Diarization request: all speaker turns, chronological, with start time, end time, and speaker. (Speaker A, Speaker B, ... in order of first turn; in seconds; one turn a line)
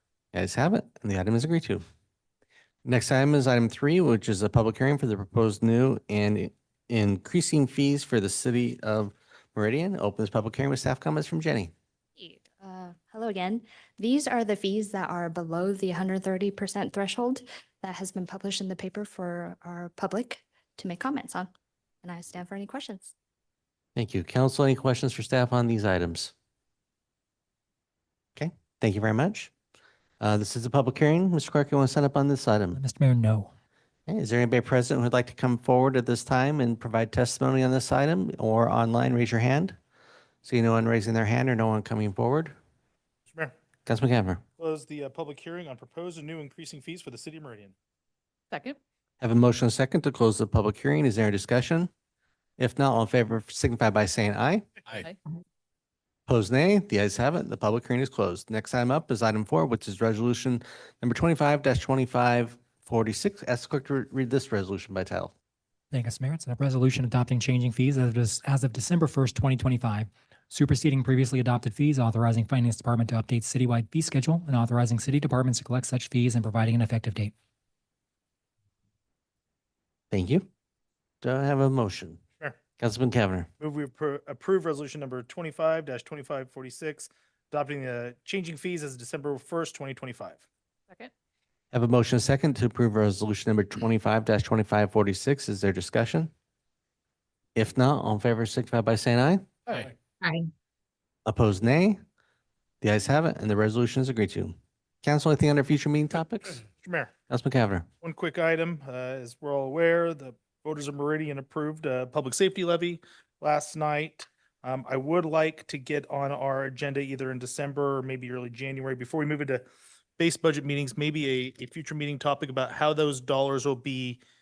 Speaker A: 0.3-1.8
Speaker A: 2.8-11.7
Speaker B: 12.2-21.5
Speaker B: 22.0-23.1
Speaker A: 23.9-26.3
Speaker A: 28.4-29.5
Speaker A: 30.2-32.8
Speaker C: 32.7-33.5
Speaker A: 34.1-39.8
Speaker A: 40.4-42.5
Speaker A: 43.9-44.4
Speaker D: 44.6-47.7
Speaker A: 49.2-51.9
Speaker A: 52.6-54.7
Speaker A: 56.3-65.3
Speaker C: 65.9-77.3
Speaker A: 80.1-80.5
Speaker A: 81.2-82.2
Speaker A: 82.8-83.5
Speaker D: 83.6-90.4
Speaker A: 91.7-96.3
Speaker A: 97.5-99.5
Speaker A: 101.2-102.0
Speaker A: 102.8-106.6
Speaker D: 106.8-107.1
Speaker A: 107.3-107.9
Speaker D: 108.0-119.6
Speaker D: 120.2-124.2